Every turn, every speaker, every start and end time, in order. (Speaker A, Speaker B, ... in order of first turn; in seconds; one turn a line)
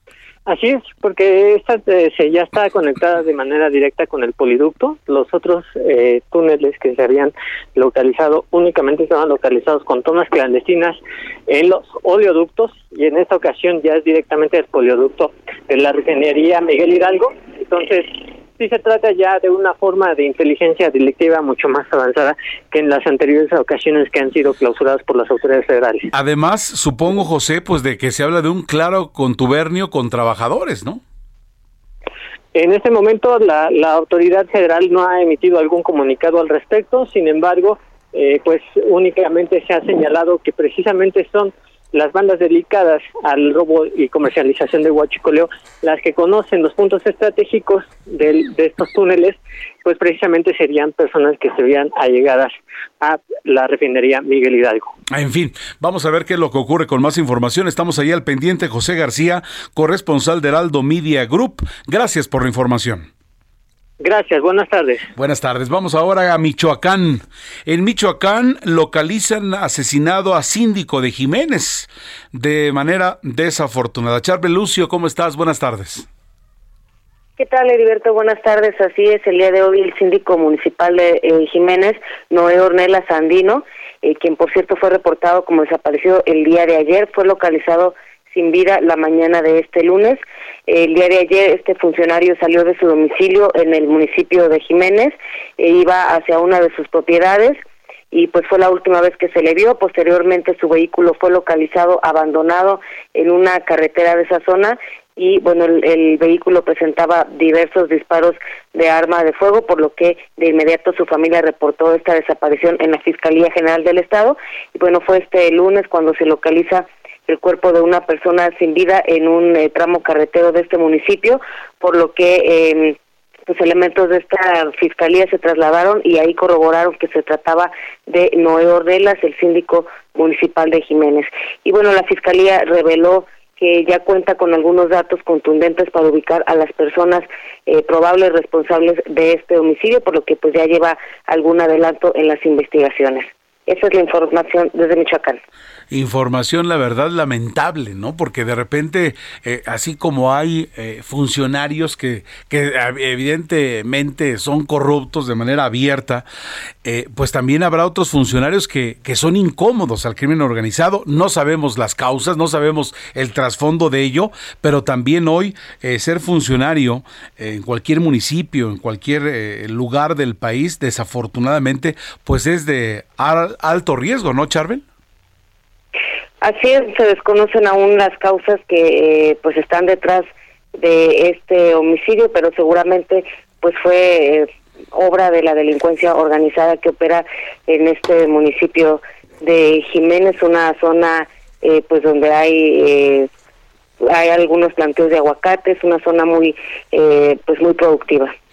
Speaker A: 0.5-26.1
Speaker B: 26.1-31.0
Speaker A: 32.5-54.9
Speaker B: 55.1-63.1
Speaker A: 64.0-65.1
Speaker B: 65.2-76.0
Speaker C: 77.4-97.6
Speaker C: 98.1-145.4
Speaker B: 145.9-156.2
Speaker B: 156.8-174.8
Speaker C: 176.4-193.3
Speaker C: 194.0-198.3